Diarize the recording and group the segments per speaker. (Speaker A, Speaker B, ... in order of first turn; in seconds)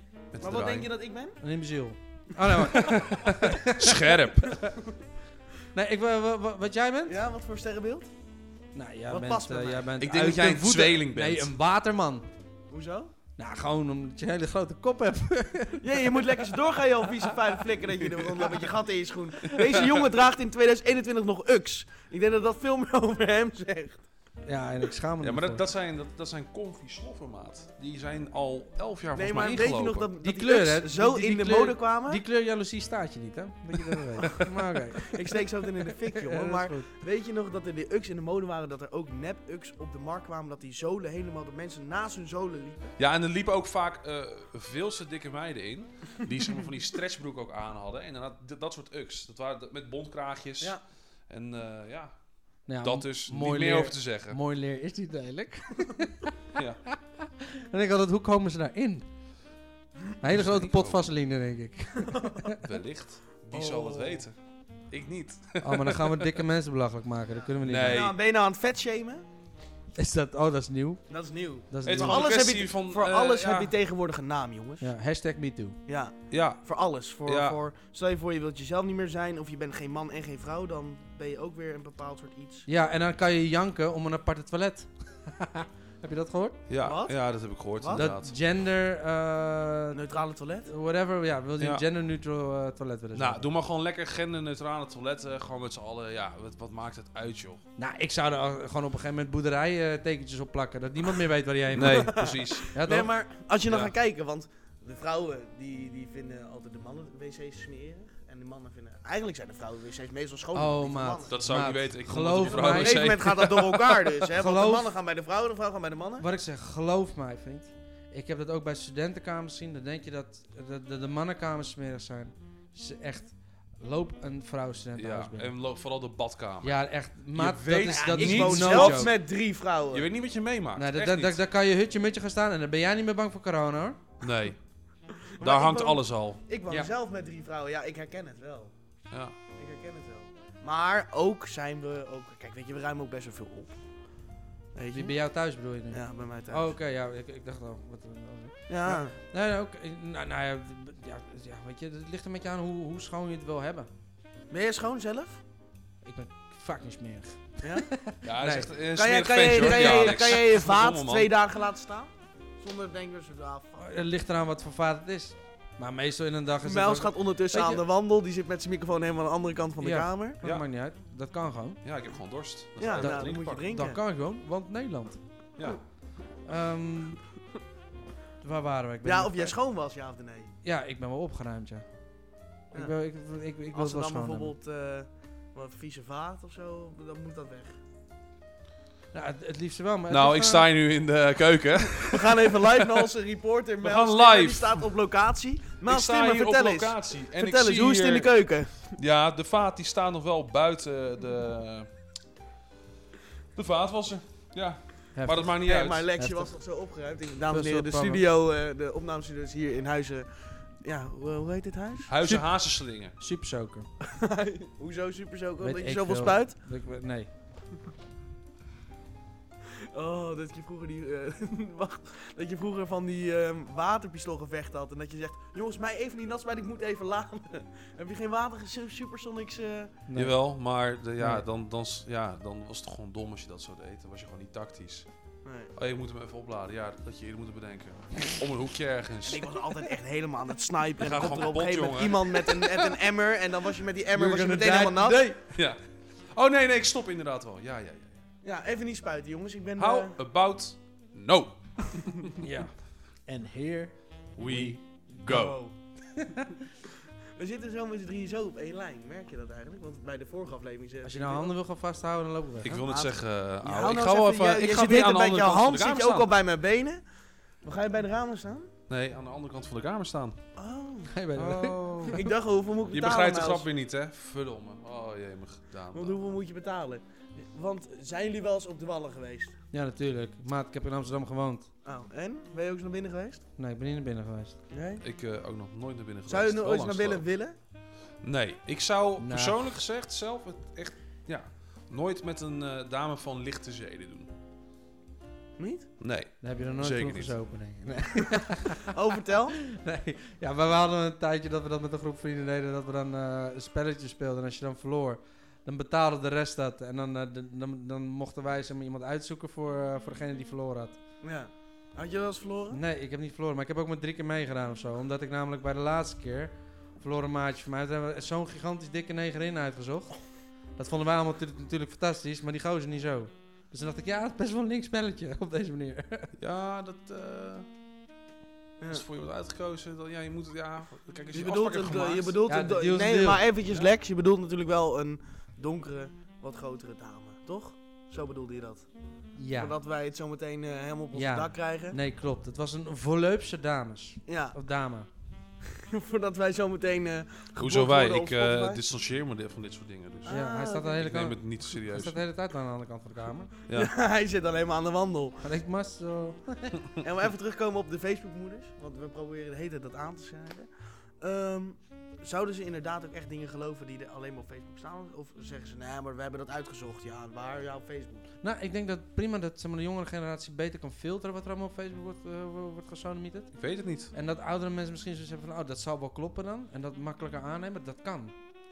Speaker A: 0.3-0.9, 2.7-4.7, 10.0-11.5, 18.1-18.7, 19.5-20.1, 25.2-30.1, 43.0-52.1, 52.8-54.4, 56.6-56.8, 60.3-61.1, 62.6-64.4, 64.9-66.3, 67.6-68.1, 71.8-73.7, 76.3-77.6, 86.7-88.3, 93.2-97.6, 101.7-102.7, 103.7-103.9, 111.3-114.1, 125.0-129.1, 129.9-131.4, 134.2-134.6, 135.4-136.4, 158.2-161.3, 171.8-173.7, 175.6-175.8, 190.1-193.1, 193.8-194.9, 195.8-201.9, 203.6-206.1, 212.1-213.2, 230.2-235.1, 235.8-239.5, 241.0-242.6, 245.5-245.8, 246.3-248.2, 249.8-252.4, 254.4-255.6, 262.6-266.3, 268.9-270.4, 272.9-276.2, 285.0-287.2, 288.2-294.3, 296.0-297.4, 326.4-327.7, 328.9-332.4, 347.6-350.4, 351.0-352.2, 373.6-374.1
Speaker B: 0.4-1.4, 7.1-8.1, 9.1-9.9, 12.7-13.1, 15.8-24.0, 29.1-32.2, 35.0-43.0, 62.0-62.5, 63.5-64.3, 67.4-69.2, 71.1-74.9, 75.9-82.7, 86.8-88.1, 89.9-90.7, 101.8-111.4, 112.4-116.3, 127.9-130.1, 135.2-138.7, 139.6-143.8, 144.7-145.2, 145.9-146.7, 148.7-149.1, 154.5-155.4, 157.6-157.9, 158.9-163.8, 166.6-170.4, 172.8-174.0, 179.0-180.5, 183.7-187.8, 191.9-199.0, 205.6-212.1, 214.0-216.6, 219.7-230.0, 235.4-235.7, 239.2-245.3, 248.4-250.2, 255.2-255.8, 256.9-261.5, 262.7-267.0, 267.6-268.7, 270.6-273.7, 275.9-279.6, 281.8-283.4, 284.7-285.0, 286.3-287.6, 295.6-295.9, 298.9-299.6, 311.2-312.8, 328.8-329.1, 331.3-338.9, 339.6-342.0, 344.3-344.6, 345.6-348.8, 350.2-351.1, 353.7-355.4, 357.0-368.3
Speaker C: 1.4-4.5, 5.7-7.2, 8.7-12.3, 13.4-16.4, 24.4-25.6, 29.4-29.7, 30.2-35.2, 36.1-36.9, 52.7-59.1, 60.2-62.6, 65.6-68.0, 70.0-71.1, 71.7-72.3, 74.8-75.8, 82.7-86.6, 87.9-90.0, 90.7-93.5, 97.8-103.1, 110.5-113.2, 114.4-114.9, 116.2-125.5, 126.6-129.1, 130.8-134.0, 144.9-153.9, 156.0-158.7, 163.8-167.8, 169.8-171.8, 173.0-175.2, 176.4-177.2, 178.4-179.5, 180.6-181.8, 182.7-184.5, 189.1-190.7, 205.2-206.5, 207.5-208.2, 213.2-213.9, 215.6-217.3, 230.1-230.4, 231.2-231.4, 244.1-245.4, 252.4-252.7, 253.3-254.8, 261.0-262.8, 271.1-272.2, 279.7-281.7, 283.6-284.6, 289.2-289.6, 296.4-298.9, 299.6-311.0, 312.7-326.3, 332.5-333.5, 339.4-339.8, 341.1-345.1, 350.3-353.5, 355.4-356.8, 368.4-373.6, 374.1-378.3